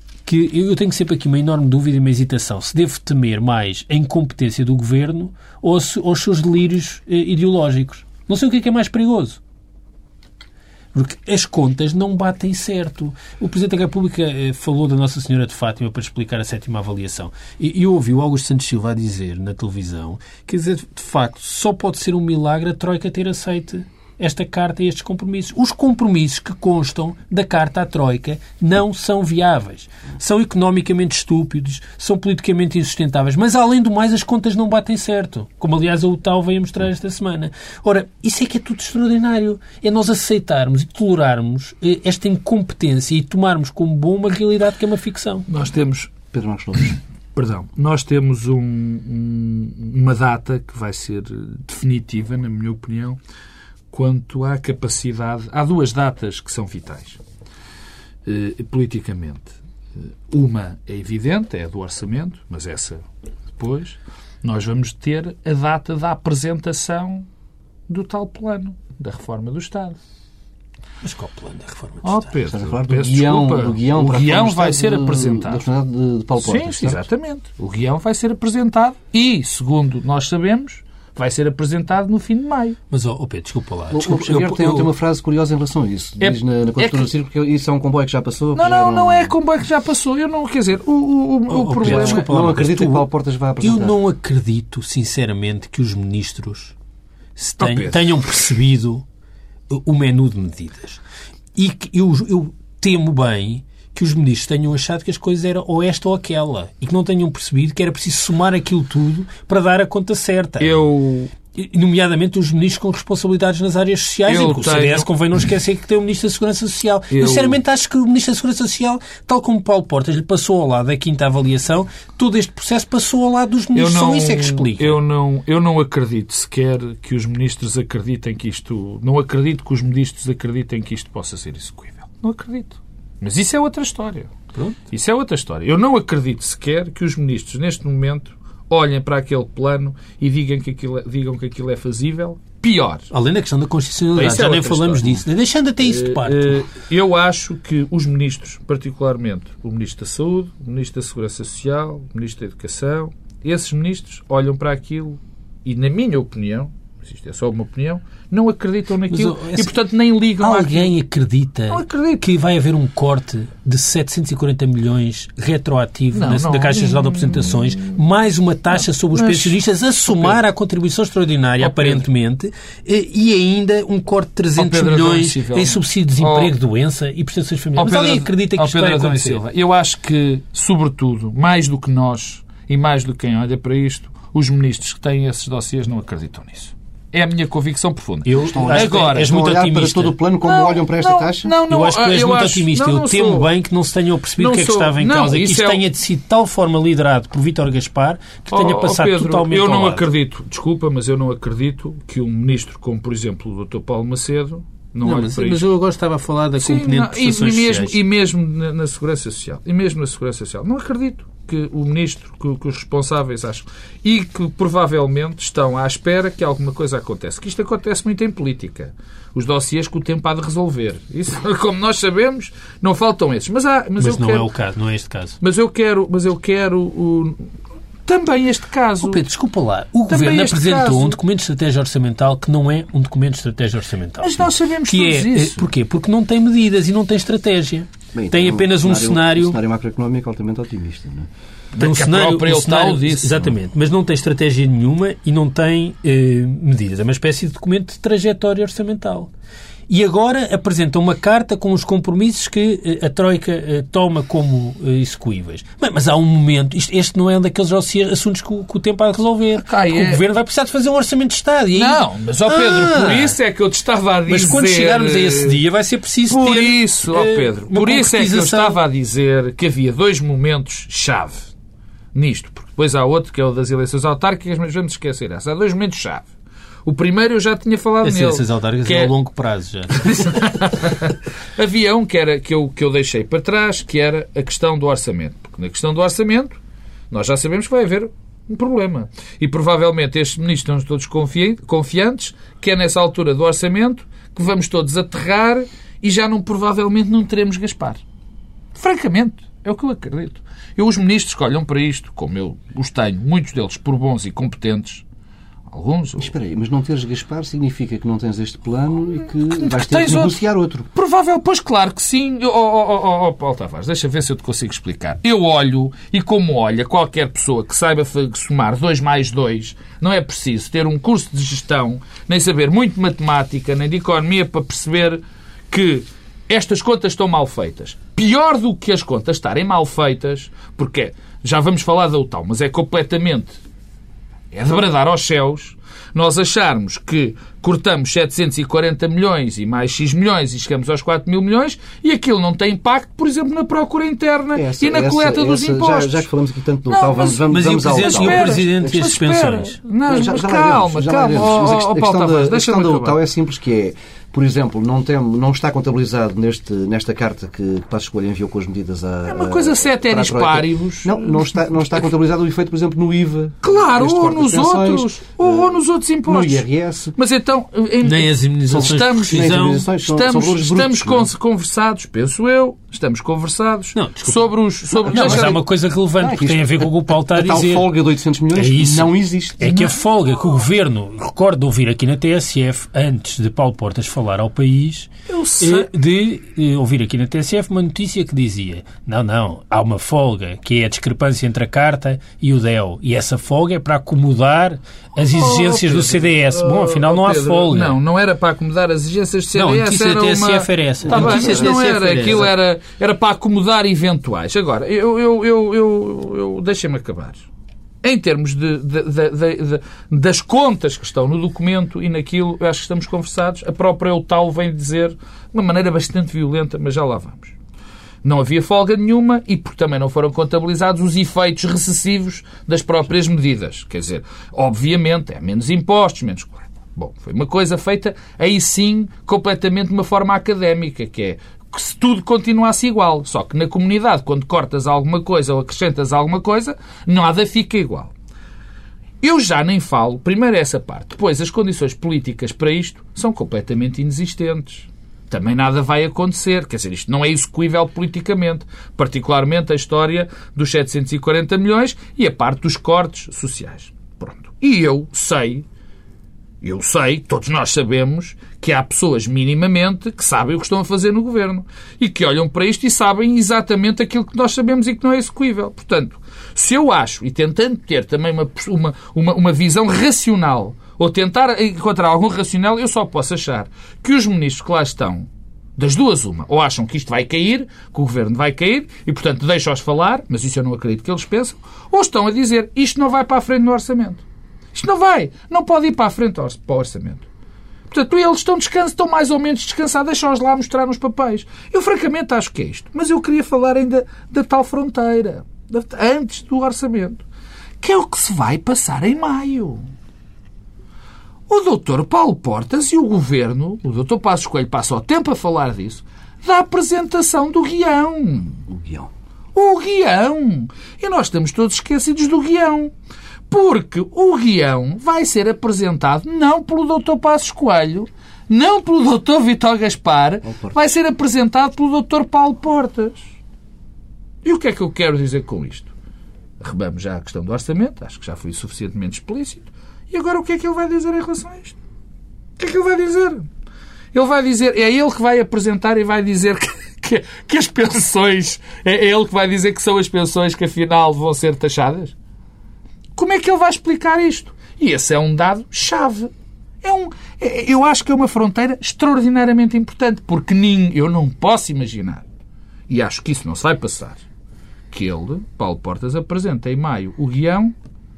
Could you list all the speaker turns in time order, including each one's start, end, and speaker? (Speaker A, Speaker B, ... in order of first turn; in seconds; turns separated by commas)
Speaker A: 0.2-9.4, Speaker A: 10.9-45.5, Speaker B: 45.5-46.1, Speaker C: 46.3-47.0, Speaker B: 46.8-53.2, Speaker B: 53.9-57.2, Speaker B: 58.2-63.0, Speaker B: 63.5-67.3, Speaker B: 67.9-70.0, Speaker A: 71.0-72.3, Speaker B: 72.0-75.6, Speaker C: 72.5-77.0, Speaker B: 76.4-82.8, Speaker A: 82.9-84.9, Speaker C: 83.9-89.3, Speaker B: 86.2-87.1, Speaker B: 88.5-92.3, Speaker A: 91.5-93.1, Speaker C: 91.8-94.0, Speaker A: 93.6-96.7, Speaker A: 97.3-99.0, Speaker B: 97.6-98.4, Speaker A: 99.7-101.0, Speaker A: 101.5-110.8, Speaker B: 110.6-111.3, Speaker A: 111.5-125.0, Speaker B: 114.3-115.1, Speaker B: 117.1-117.6, Speaker B: 123.7-134.3, Speaker B: 134.9-143.1, Speaker A: 143.1-146.6, Speaker B: 144.2-145.2, Speaker B: 145.8-160.9, Speaker A: 159.1-159.8, Speaker A: 160.4-179.4, Speaker B: 161.7-162.2, Speaker B: 166.1-168.0, Speaker B: 168.7-170.4, Speaker B: 171.6-172.0, Speaker B: 174.6-176.5, Speaker B: 177.8-189.3, Speaker A: 188.2-190.2, Speaker C: 188.4-191.6, Speaker B: 190.4-193.5, Speaker A: 191.7-200.1, Speaker B: 194.4-195.8, Speaker B: 198.5-205.6, Speaker A: 205.0-207.9, Speaker B: 206.6-224.5, Speaker A: 224.0-225.4, Speaker B: 225.4-227.5, Speaker B: 228.1-229.2, Speaker A: 229.0-239.6, Speaker B: 230.1-231.2, Speaker B: 234.2-235.7, Speaker C: 238.1-241.3, Speaker B: 241.7-243.5, Speaker A: 241.8-249.3, Speaker A: 249.9-263.4, Speaker B: 259.6-260.2, Speaker B: 261.7-265.6, Speaker A: 264.3-268.8, Speaker B: 266.3-271.5, Speaker B: 272.1-276.3, Speaker B: 276.9-279.1, Speaker A: 278.0-280.4, Speaker B: 279.9-286.6, Speaker B: 287.1-298.0, Speaker B: 298.7-305.0, Speaker B: 305.7-306.3, Speaker C: 306.2-310.9, Speaker B: 309.5-310.4, Speaker B: 310.9-333.6, Speaker B: 334.5-346.2, Speaker C: 344.5-348.7, Speaker B: 346.9-353.2, Speaker A: 347.5-349.8, Speaker C: 350.1-367.1, Speaker B: 359.3-362.1, Speaker B: 363.6-375.6, Speaker A: 368.0-369.9, Speaker C: 368.7-371.3, Speaker A: 373.9-377.9, Speaker C: 374.9-375.6, Speaker C: 376.2-379.7, Speaker A: 378.5-398.0, Speaker B: 379.6-380.0, Speaker B: 385.3-385.9, Speaker B: 395.3-407.4, Speaker A: 399.5-402.4, Speaker C: 401.0-402.5, Speaker B: 408.0-417.5, Speaker B: 418.2-438.1, Speaker B: 439.2-455.6, Speaker B: 456.6-484.2, Speaker B: 484.7-487.2, Speaker B: 487.9-497.2, Speaker B: 497.8-499.9, Speaker B: 501.5-508.6, Speaker C: 508.7-509.1, Speaker B: 509.5-512.9, Speaker B: 513.5-523.2, Speaker C: 520.4-520.8, Speaker B: 524.4-525.9, Speaker B: 526.6-531.8, Speaker B: 532.6-533.5, Speaker B: 534.1-542.1, Speaker B: 543.2-546.3, Speaker B: 546.8-552.2, Speaker B: 552.9-554.2, Speaker B: 554.9-557.7